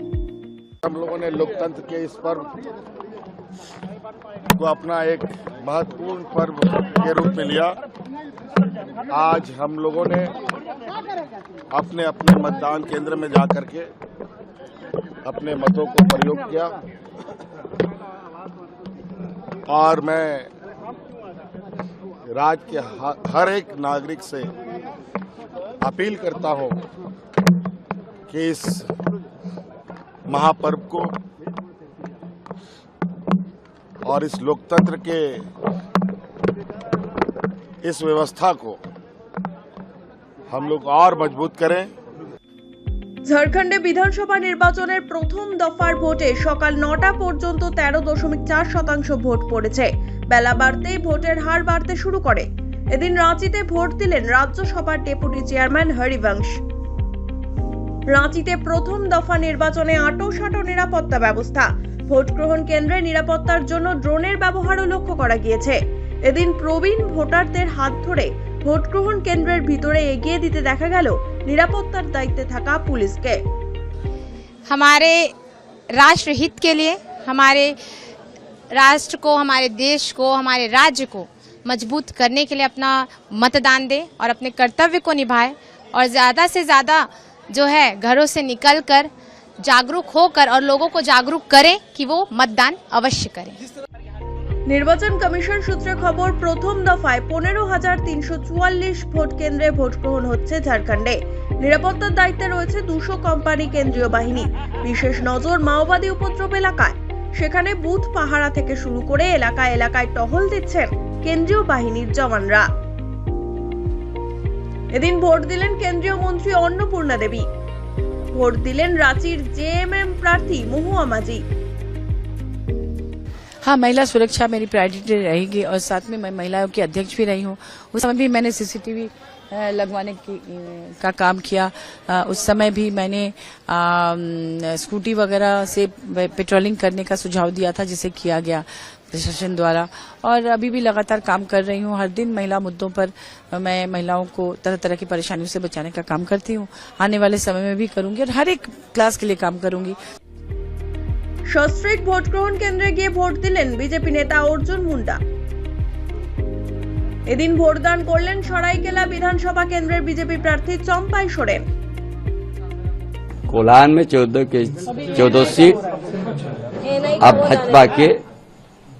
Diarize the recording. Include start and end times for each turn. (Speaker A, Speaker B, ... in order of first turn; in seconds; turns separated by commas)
Speaker A: 0.8-2.5, Speaker A: 4.6-7.8, Speaker A: 9.1-10.3, Speaker A: 11.7-13.9, Speaker A: 15.2-16.7, Speaker A: 19.7-20.5, Speaker A: 22.3-24.5, Speaker A: 25.8-26.8, Speaker A: 28.3-28.9, Speaker A: 30.3-31.1, Speaker A: 34.0-35.4, Speaker A: 37.8-38.8, Speaker A: 40.5-41.9, Speaker B: 43.3-56.5, Speaker B: 58.1-73.4, Speaker C: 74.7-75.3, Speaker C: 75.9-77.8, Speaker C: 78.7-89.1, Speaker C: 89.6-93.6, Speaker B: 94.7-112.7, Speaker B: 114.9-117.5, Speaker B: 118.3-121.4, Speaker D: 123.6-150.0, Speaker B: 151.5-155.2, Speaker B: 157.3-161.6, Speaker E: 163.5-165.8, Speaker E: 167.1-168.2